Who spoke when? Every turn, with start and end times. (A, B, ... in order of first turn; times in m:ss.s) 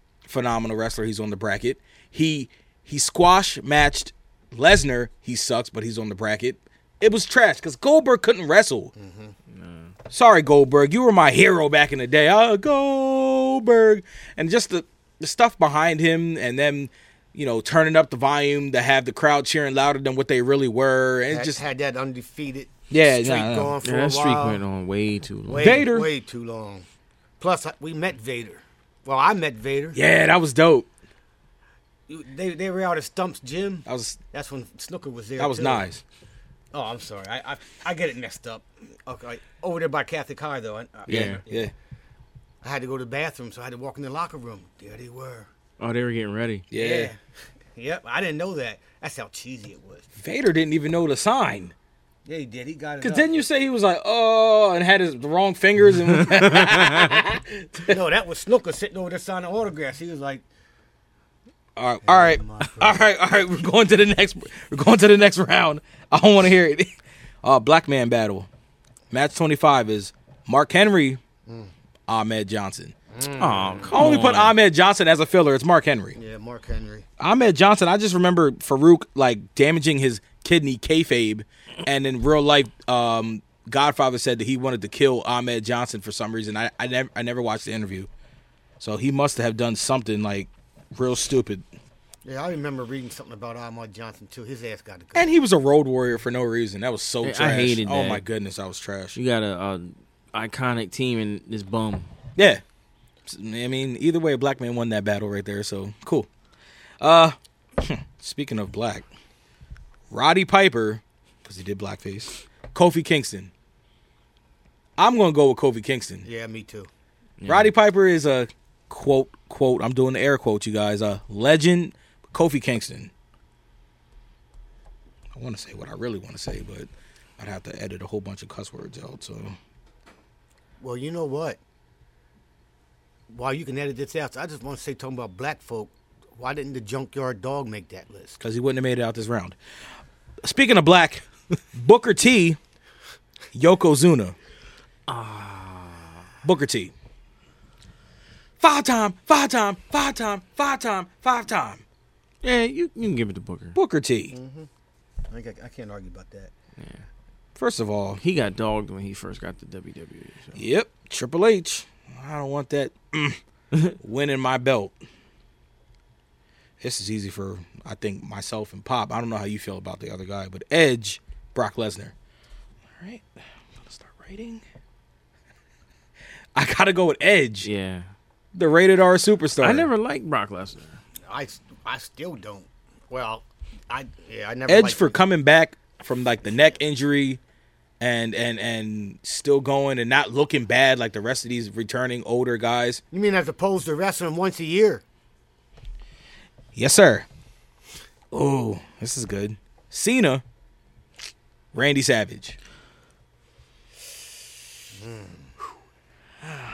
0:00.2-0:08.9 A
0:09.0-0:09.3 B
0:09.5-0:09.9 C
0:10.1-0:21.6 A
0:21.3-0:24.6 B
0:22.9-0:23.7 A
0:23.8-0:25.8 C
0:25.4-0:26.8 B
0:25.6-0:26.1 A
0:27.4-0:30.0 B
0:29.9-0:30.9 A
0:32.1-0:35.9 B
0:33.8-0:34.2 A
0:35.4-0:36.0 A
0:36.7-0:41.7 B
0:41.1-0:41.4 C
0:41.1-0:41.7 A
0:42.6-0:45.5 B
0:45.8-0:46.6 C
0:46.7-0:47.1 A
0:46.7-0:47.2 B
0:47.8-0:50.1 B
0:50.2-0:51.7 A
0:52.2-0:53.4 B
0:53.0-0:58.0 A
0:56.3-0:56.7 C
0:57.8-1:00.4 B
1:01.8-1:08.5 A
1:02.0-1:03.0 B
1:09.1-1:11.2 A
1:11.4-1:11.7 B
1:12.1-1:12.9 A
1:13.1-1:14.0 B
1:13.4-1:14.5 C
1:13.9-1:16.2 A
1:16.2-1:17.1 B
1:17.2-1:28.1 A
1:28.8-1:31.6 A
1:32.2-1:35.3 B
1:35.1-1:39.2 A
1:37.2-1:38.2 C
1:39.1-1:42.1 C
1:42.4-1:42.6 A
1:43.2-1:46.3 A
1:47.0-1:49.0 A
1:50.1-1:53.5 A
1:55.0-1:56.2 A
1:56.2-1:56.9 B
1:57.4-1:57.7 C
1:57.4-2:03.1 A
2:05.3-2:09.6 A
2:10.8-2:11.6 B
2:13.3-2:18.4 B
2:18.4-2:19.6 A
2:20.4-2:22.6 A
2:23.5-2:24.4 A
2:25.1-2:26.2 C
2:26.4-2:26.9 A
2:28.6-2:31.8 A
2:32.4-2:33.8 C
2:33.7-2:34.3 A
2:34.3-2:34.7 B
2:35.3-2:36.5 B
2:36.8-2:37.0 C
2:37.6-2:38.2 A
2:38.2-2:40.6 C
2:40.5-2:43.4 A
2:44.0-2:45.0 A
2:46.8-2:52.1 A
2:53.0-2:53.2 A
2:53.8-2:54.6 A
2:56.5-2:57.7 A
2:57.6-2:58.1 C
2:58.5-2:59.9 A
2:59.6-3:01.0 C
3:01.3-3:05.2 B
3:04.7-3:07.4 A
3:08.0-3:13.0 A
3:13.1-3:15.0 B
3:16.7-3:17.2 A
3:18.3-3:20.4 A
3:21.7-3:22.6 A
3:24.9-3:25.5 B